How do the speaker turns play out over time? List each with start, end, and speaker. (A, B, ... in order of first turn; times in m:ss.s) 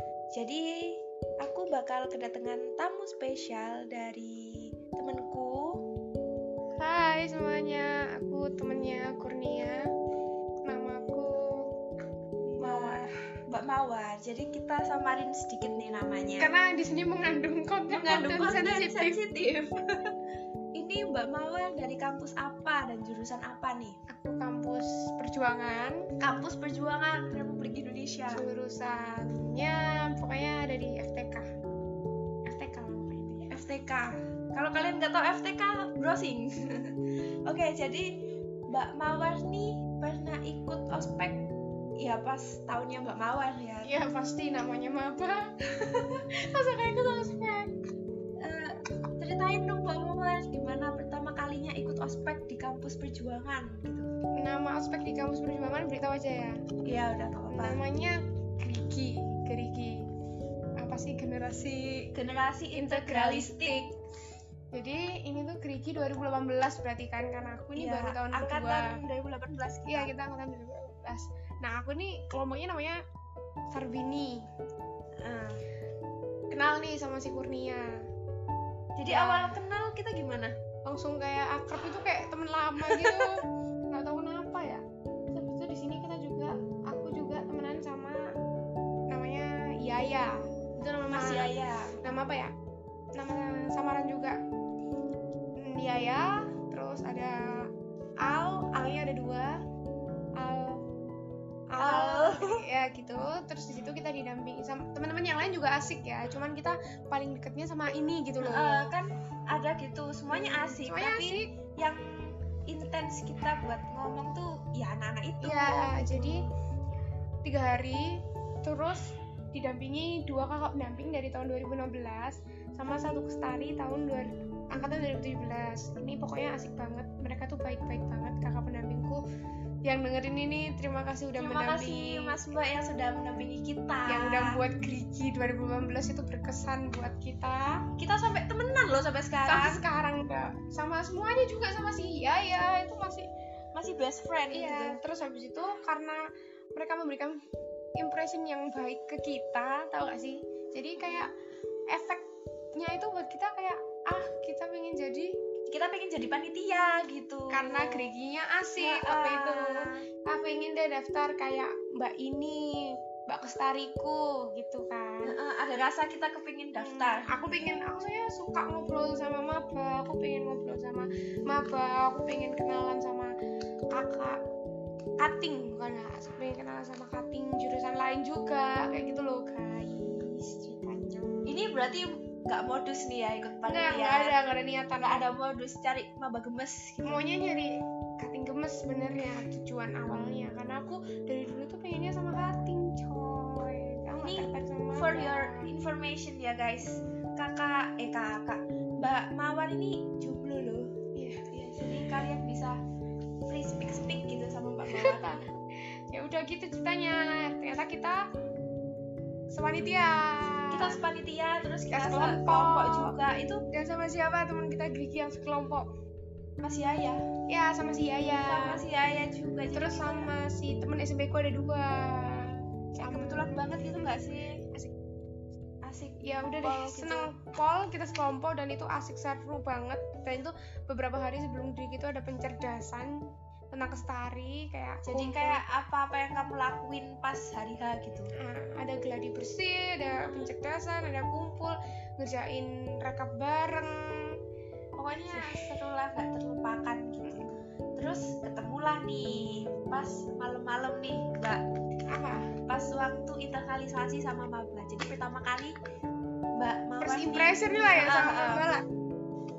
0:00.3-0:05.8 A
0:06.8-0:09.8 B
0:10.7-0:11.3 B
0:12.4-0:16.5 A
0:12.6-0:13.1 B
0:16.4-0:19.2 B
0:17.9-0:19.7 A
0:20.7-0:24.0 A
0:24.1-0:26.0 B
0:26.2-0:28.4 A
0:28.3-0:31.5 B
0:32.5-0:33.5 B
0:33.5-0:37.0 A
0:37.5-0:38.2 A
0:38.7-0:43.9 A
0:43.8-0:47.7 B
0:48.4-0:54.1 A
0:54.4-0:56.6 B
0:56.8-0:57.8 A
0:57.5-1:00.0 B
1:00.8-1:02.1 B
1:02.1-1:03.8 A
1:02.7-1:03.9 B
1:04.7-1:09.0 B
1:07.8-1:10.1 A
1:09.9-1:13.0 B
1:13.7-1:14.5 B
1:15.2-1:15.6 A
1:16.5-1:17.9 B
1:19.0-1:20.5 A
1:19.1-1:19.6 B
1:20.8-1:28.2 B
1:22.8-1:23.3 A
1:29.1-1:31.5 B
1:31.1-1:32.0 A
1:32.0-1:32.5 B
1:33.2-1:34.4 B
1:35.6-1:37.4 B
1:38.2-1:39.6 B
1:40.4-1:40.8 B
1:41.7-1:48.9 B
1:41.8-1:42.6 A
1:48.4-1:56.5 A
1:50.8-1:51.5 B
1:55.4-1:56.4 B
1:57.4-2:09.2 B
2:09.8-2:12.5 B
2:11.4-2:14.6 A
2:14.1-2:17.8 B
2:18.0-2:19.8 A
2:19.4-2:23.3 B
2:23.7-2:25.0 A
2:24.5-2:26.2 B
2:26.7-2:27.4 B
2:28.0-2:31.3 B
2:31.0-2:31.3 A
2:31.9-2:32.2 B
2:32.8-2:35.3 B
2:35.7-2:38.1 A
2:37.5-2:45.3 B
2:38.8-2:40.0 A
2:45.2-2:47.7 A
2:46.8-2:53.3 B
2:53.9-2:54.4 B
2:55.2-3:01.4 B
3:01.4-3:04.3 A
3:03.6-3:05.2 B
3:05.0-3:07.2 A
3:07.0-3:15.7 B
3:14.2-3:20.9 A
3:21.1-3:21.4 B
3:21.5-3:22.8 A
3:23.5-3:25.4 A
3:24.9-3:25.5 B
3:26.1-3:28.3 B
3:29.5-3:31.0 B
3:30.7-3:33.6 A
3:31.9-3:33.1 B
3:33.7-3:35.9 B
3:36.6-3:37.2 A
3:37.5-3:38.8 B
3:38.4-3:40.3 A
3:39.7-3:44.0 B
3:42.2-3:44.6 A
3:45.8-3:47.4 A
3:46.2-3:55.6 B
3:55.0-3:58.3 A
3:58.4-4:04.0 B
4:00.2-4:00.5 A
4:05.0-4:11.6 A
4:05.3-4:05.7 B
4:12.1-4:12.5 B
4:12.7-4:15.8 A
4:16.6-4:18.6 A
4:17.0-4:18.8 B